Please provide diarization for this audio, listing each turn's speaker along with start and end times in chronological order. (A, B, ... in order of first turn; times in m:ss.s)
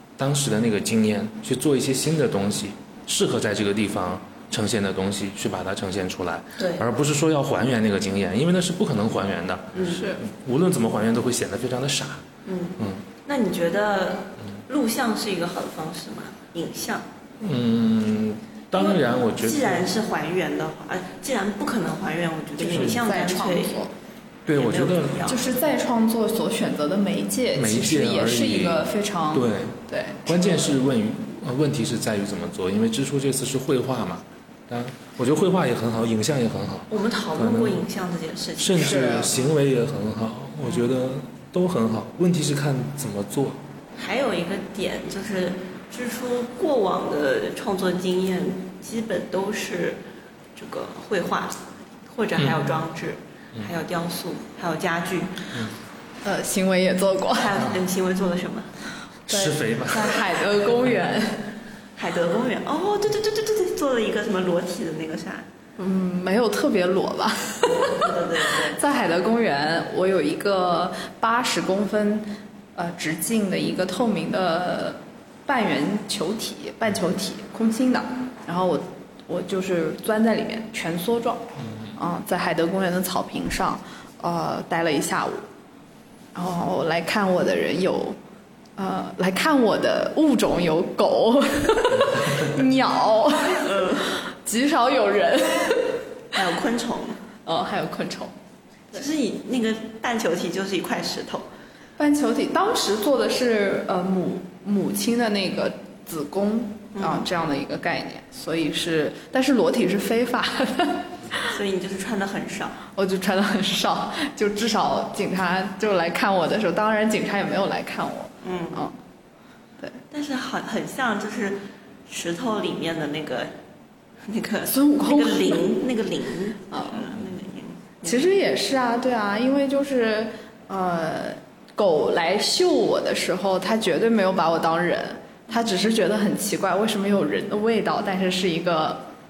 0:00.2-0:12.2 A
0:06.6-0:06.8 B
0:09.7-0:10.1 B
0:09.9-0:10.2 C
0:12.4-0:17.1 B
0:17.4-0:19.9 A
0:18.8-0:23.8 B
0:22.6-0:23.9 C
0:22.7-0:23.0 A
0:24.5-0:25.4 A
0:24.6-0:25.5 B
0:25.3-0:30.8 C
0:27.6-0:37.8 A
0:36.9-0:39.2 B
0:38.6-0:43.6 A
0:38.8-0:39.4 C
0:44.0-0:50.0 B
0:50.6-0:55.4 B
0:56.2-0:57.6 C
0:57.4-0:58.8 B
0:59.3-1:00.3 A
0:59.3-1:01.5 C
1:02.0-1:05.5 B
1:05.8-1:25.5 C
1:07.6-1:08.8 B
1:21.6-1:22.0 A
1:26.4-1:28.2 C
1:28.8-1:36.0 C
1:33.5-1:34.2 B
1:36.3-1:37.2 B
1:37.4-1:38.3 C
1:38.9-1:41.5 B
1:42.0-1:51.5 C
1:47.0-1:47.2 B
1:51.4-1:52.8 B
1:53.0-1:59.0 C
1:58.4-1:58.9 B
2:00.1-2:03.5 B
2:04.2-2:08.3 B
2:04.7-2:05.8 C
2:06.7-2:07.1 C
2:08.0-2:19.1 C